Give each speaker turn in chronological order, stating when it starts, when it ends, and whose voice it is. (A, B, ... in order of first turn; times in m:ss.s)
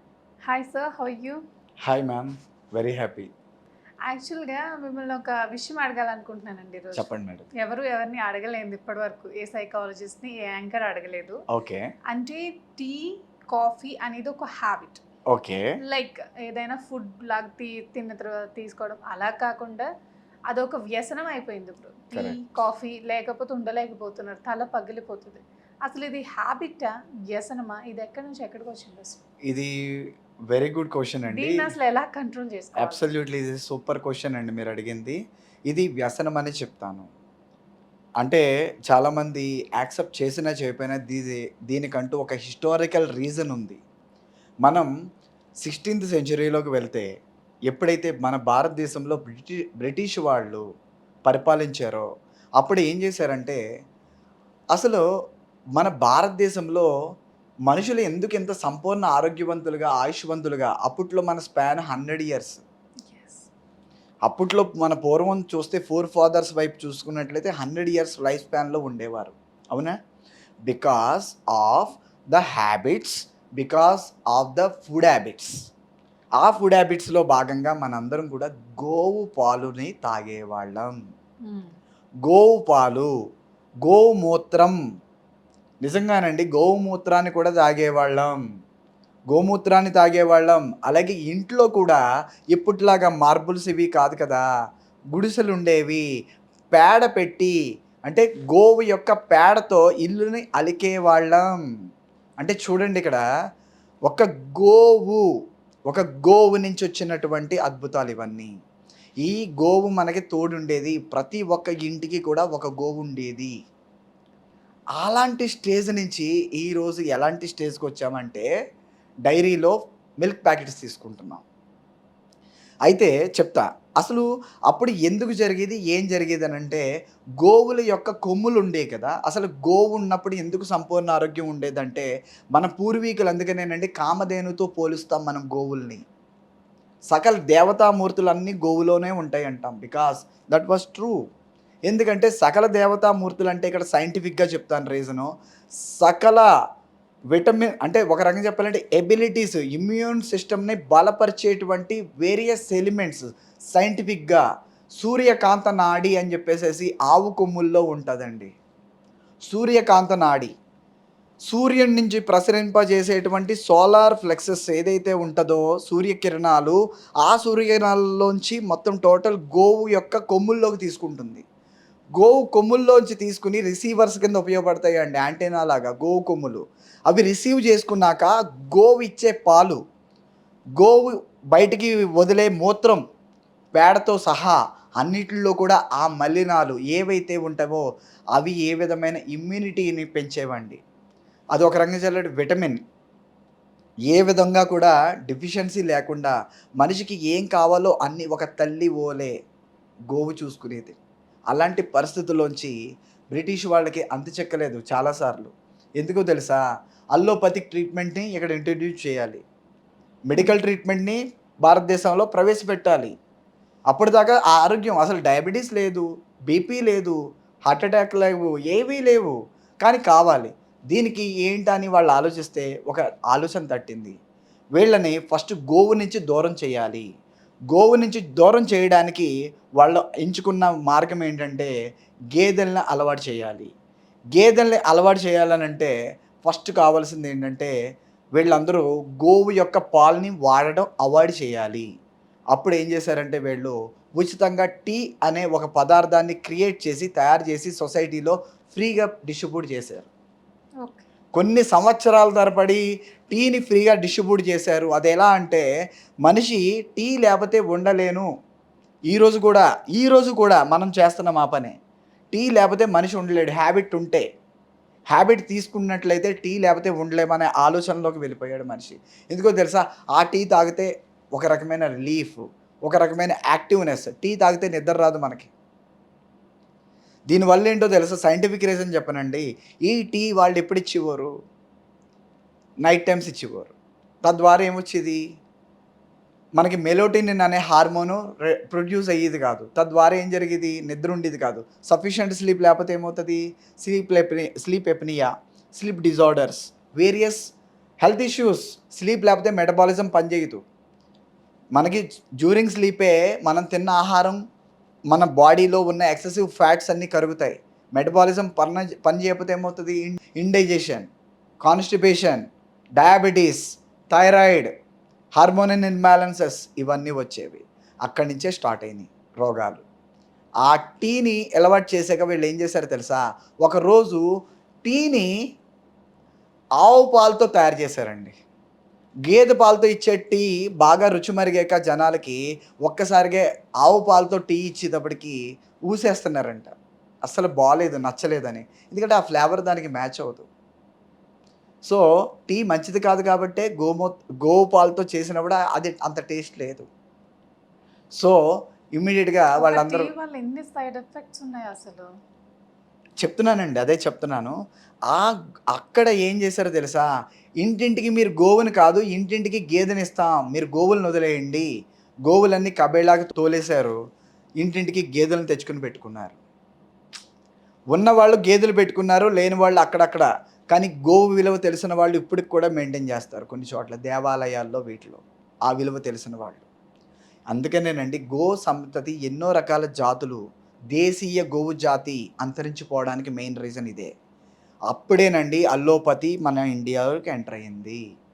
0:00.4-0:01.4 A
0:01.8-0:03.3 B
0:04.0-0:11.4 A
0:06.9-0:07.5 B
0:11.5-0:11.8 B
0:12.1-0:15.0 A
0:15.3-0:15.6 B
0:15.8-0:19.9 A
0:20.5-0:29.2 A
0:22.1-0:22.4 B
0:29.5-0:29.7 B
0:30.5-0:31.7 B
0:31.3-0:33.1 A
0:32.8-0:35.2 B
0:35.7-0:37.1 B
0:38.2-0:43.8 B
0:45.6-0:47.1 B
0:47.7-0:50.6 B
0:51.2-0:52.0 B
0:52.6-0:53.6 B
0:54.7-0:55.0 B
0:55.8-0:56.9 B
0:57.7-1:02.6 B
1:03.1-1:03.5 A
1:04.3-1:09.9 B
1:10.7-1:15.5 B
1:16.4-1:21.0 B
1:21.4-1:21.7 A
1:22.2-1:23.1 B
1:23.8-1:24.8 B
1:25.8-1:28.4 B
1:29.3-1:32.0 B
1:32.5-1:34.4 B
1:35.1-1:36.0 B
1:36.7-1:37.5 B
1:38.0-1:41.6 B
1:42.4-1:43.2 B
1:44.1-1:45.2 B
1:45.9-1:48.5 B
1:49.2-1:53.5 B
1:55.0-1:58.5 B
1:59.2-2:01.4 B
2:02.9-2:06.8 B
2:07.4-2:16.0 B
2:17.1-2:21.2 B
2:21.9-2:25.3 B
2:26.0-2:26.5 B
2:27.3-2:34.4 B
2:35.0-2:38.5 B
2:39.5-2:40.5 B
2:41.5-2:51.4 B
2:52.2-2:59.8 B
3:00.8-3:03.0 B
3:03.7-3:10.8 B
3:11.5-3:12.8 B
3:14.1-3:19.3 B
3:20.1-3:21.0 B
3:21.5-3:22.7 B
3:23.3-3:26.6 B
3:27.1-3:29.4 B
3:30.3-3:33.1 B
3:33.9-3:37.2 B
3:37.7-3:44.2 B
3:44.8-3:47.0 B
3:47.7-3:51.7 B
3:52.3-3:53.7 B
3:54.4-3:57.7 B
3:58.4-4:01.8 B
4:02.5-4:10.1 B
4:10.8-4:11.1 A
4:11.3-4:15.6 B
4:16.2-4:18.2 B
4:19.1-4:21.7 B
4:22.3-4:24.2 B
4:25.1-4:35.5 B
4:37.3-4:41.3 B
4:42.8-4:43.7 B
4:44.2-4:45.2 B
4:46.6-4:57.4 B
4:58.0-5:00.6 B
5:01.8-5:04.4 B
5:05.1-5:11.1 B
5:11.6-5:12.4 B
5:13.0-5:14.7 B
5:15.4-5:19.8 B
5:20.6-5:24.2 B
5:24.8-5:25.3 B
5:26.8-5:28.4 B
5:29.2-5:36.7 B
5:37.2-5:40.5 B
5:41.8-5:46.9 B
5:48.9-5:50.1 B
5:49.6-5:52.1 A
5:53.2-5:54.6 B
5:55.1-5:57.0 B
5:57.6-6:01.7 B
6:02.3-6:04.0 B
6:04.6-6:06.4 B
6:07.9-6:16.6 B
6:17.5-6:20.4 B
6:20.9-6:24.1 B
6:24.9-6:28.0 B